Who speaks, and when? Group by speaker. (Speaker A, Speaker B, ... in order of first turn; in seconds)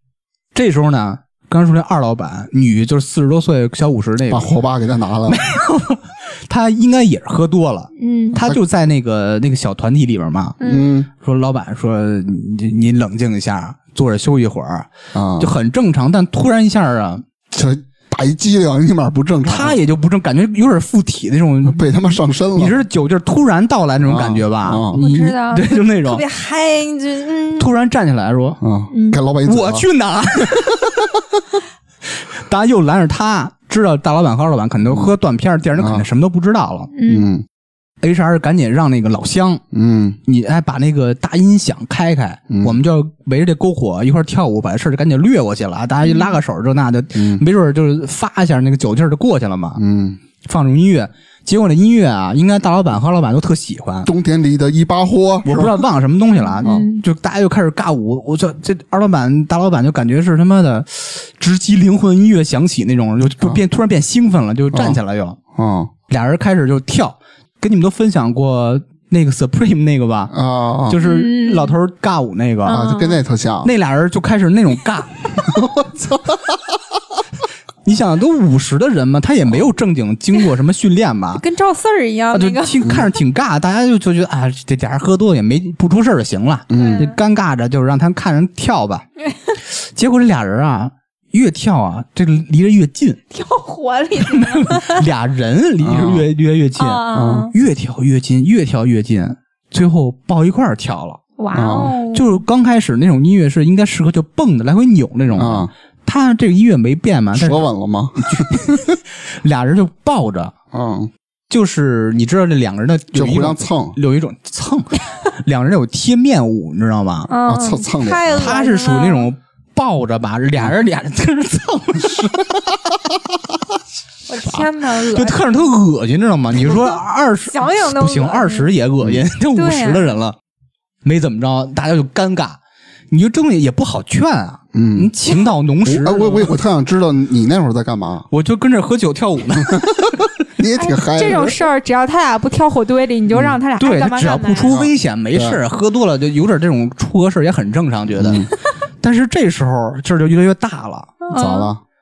Speaker A: 0.5-4.5, 5.3-10.6, 11.2-17.2, 19.4-21.9, 22.6-26.2, 27.6-28.6, 29.4-30.9, 32.2-36.9, 38.0-39.6, 40.3-49.8, 50.4-54.1, 55.5-65.4, 66.1-70.3, 70.9-72.8, 73.6-75.4, 77.8-81.4, 82.3-89.1, 89.8-93.2, 94.2-101.2, 102.1-107.7, 108.3-110.5, 111.5-117.3, 118.3-122.6, 124.4-130.4, 131.0-132.6, 133.1-136.5, 138.3-140.2, 143.8-148.5, 149.0-151.2
Speaker B: 4.3-5.4, 10.6-11.1, 15.1-15.5, 17.5-19.8, 21.6-22.8, 24.1-25.1, 28.6-29.9, 35.8-36.1, 37.1-37.5, 39.7-40.2, 42.5-42.8, 47.1-47.4, 49.8-50.2, 54.0-55.8, 64.7-65.0, 65.5-65.9, 70.3-71.0, 72.7-73.7, 75.4-76.6, 86.7-87.1, 95.8-96.3, 97.1-97.5, 101.5-102.0, 105.3-105.7, 107.3-109.0, 110.7-111.1, 113.1-114.0, 117.5-118.5, 134.7-135.1, 135.8-138.3, 139.7-141.5, 144.7-145.6, 148.2-148.5, 151.3-151.8
Speaker C: 8.0-8.4, 10.6-10.9, 24.9-27.7, 28.9-29.2, 36.9-37.3, 46.0-46.4, 56.4-57.0, 71.0-71.8, 72.7-73.2, 81.4-82.8, 86.7-87.1, 89.2-89.5, 93.3-95.0, 96.8-97.5, 101.4-102.4, 117.3-119.3, 124.3-125.7, 126.7-127.0, 127.5-128.7, 129.6-130.1, 140.8-144.7, 151.2-151.7